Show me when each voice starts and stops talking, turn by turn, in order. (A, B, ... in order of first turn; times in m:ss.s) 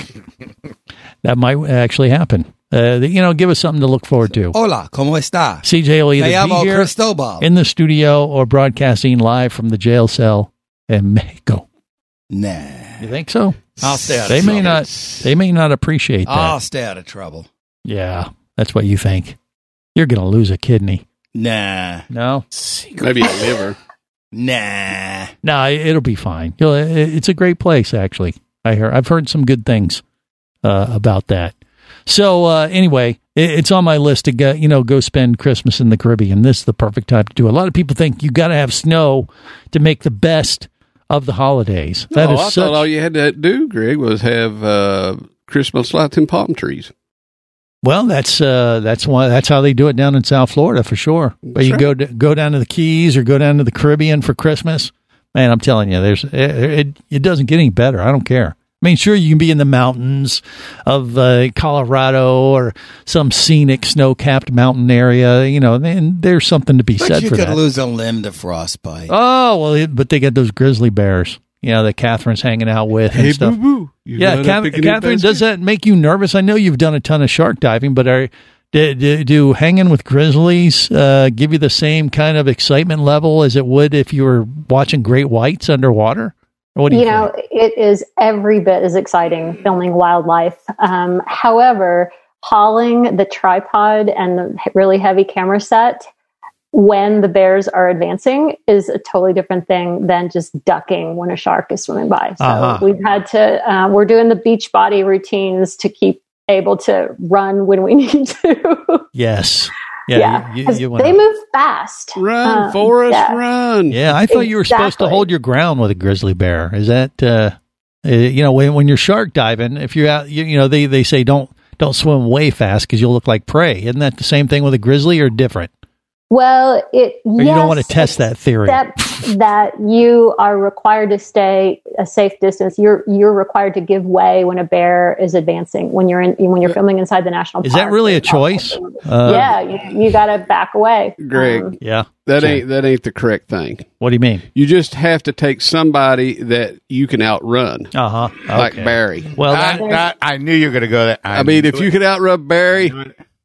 0:01.2-0:04.5 A
0:04.5-0:05.6 B
0:05.6-0:11.6 A
0:06.2-0:07.4 B
0:12.3-0:13.0 B
0:13.0-0:13.7 A
0:13.8-0:15.2 C
0:13.8-0:14.8 B
0:14.2-0:16.6 A
0:16.2-0:17.5 B
0:17.8-0:19.4 A
0:19.9-0:21.0 A
0:21.3-0:22.0 B
0:22.1-0:22.4 A
0:22.9-0:23.8 C
0:24.3-0:25.3 B
0:25.4-0:30.0 A
0:30.6-0:31.5 A
0:32.1-0:42.9 A
0:42.1-0:46.9 C
0:47.8-1:07.6 A
0:51.4-0:51.9 C
1:07.0-1:09.1 B
1:09.1-1:13.6 A
1:13.1-1:15.4 C
1:14.2-1:27.3 A
1:26.9-1:36.0 D
1:36.7-1:49.0 D
1:42.4-1:42.8 A
1:49.1-1:51.2 A
1:50.1-1:53.4 D
1:52.2-1:54.0 C
1:53.9-2:05.7 A
1:54.3-1:55.3 D
2:06.3-2:21.7 D
2:07.4-2:08.8 A
2:17.6-2:19.5 A
2:21.2-2:23.9 C
2:21.8-2:22.6 A
2:24.0-2:24.4 A
2:24.5-2:27.9 C
2:27.9-2:29.8 A
2:28.5-2:29.4 C
2:29.4-2:32.0 E
2:29.8-2:30.0 D
2:31.3-2:33.0 C
2:32.7-2:33.1 E